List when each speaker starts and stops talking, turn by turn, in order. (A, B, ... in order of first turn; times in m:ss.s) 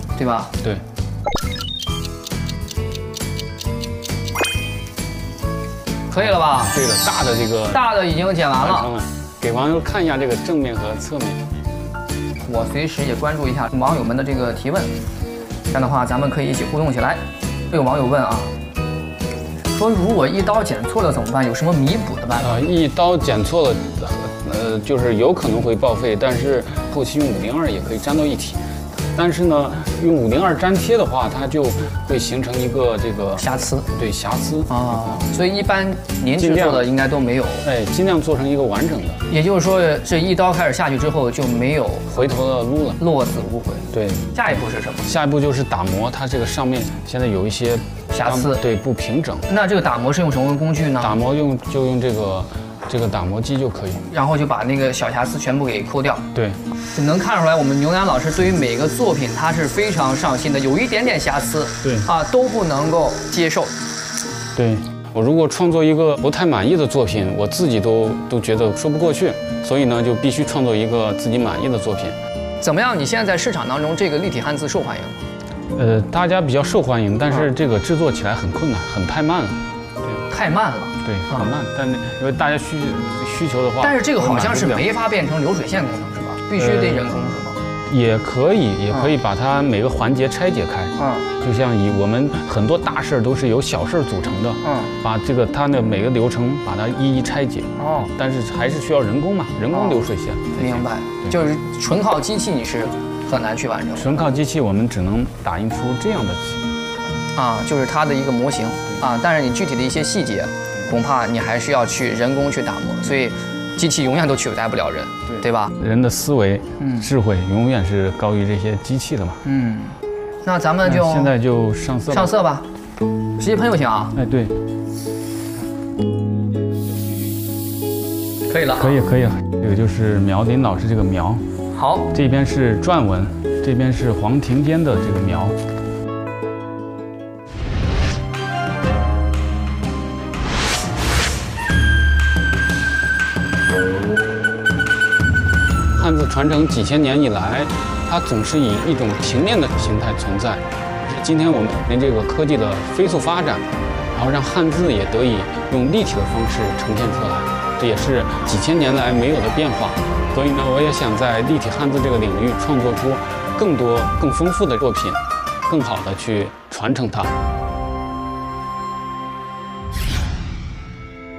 0:00.2-0:00.5 A
0:06.1-0:06.7 A
0:06.2-0:07.9 B
0:07.7-0:08.9 A
0:08.6-0:11.4 B
0:12.4-0:14.9 A
0:15.7-0:18.5 A
0:19.7-0:22.5 A
0:22.4-0:28.6 B
0:29.1-0:35.2 B
0:33.4-0:33.9 A
0:34.7-0:37.6 A
0:36.4-0:36.9 B
0:37.6-0:39.2 B
0:39.3-0:42.1 A
0:42.1-0:43.0 B
0:43.0-0:45.1 A
0:43.9-0:44.3 B
0:45.0-0:49.4 B
0:48.1-0:48.6 A
0:49.5-0:51.2 A
0:51.0-0:54.0 B
0:54.1-0:56.2 A
0:56.3-0:56.6 B
0:56.9-1:03.7 A
1:01.8-1:02.1 B
1:04.6-1:12.2 B
1:12.6-1:15.2 A
1:15.7-1:20.2 B
1:20.3-1:21.5 A
1:21.0-1:24.9 B
1:23.8-1:27.6 A
1:26.6-1:27.1 B
1:27.9-1:41.3 B
1:31.0-1:31.3 A
1:34.6-1:34.9 A
1:37.8-1:38.1 A
1:39.7-1:44.2 A
1:44.0-1:46.7 B
1:47.3-1:55.7 A
1:55.3-1:59.4 B
1:56.8-1:57.1 A
1:59.4-2:01.3 A
2:00.8-2:02.3 B
2:02.1-2:02.6 A
2:03.4-2:04.1 A
2:04.1-2:04.5 B
2:08.5-2:09.0 A
2:08.7-2:11.4 B
2:11.7-2:12.1 A
2:12.1-2:15.6 B
2:25.9-2:47.3 B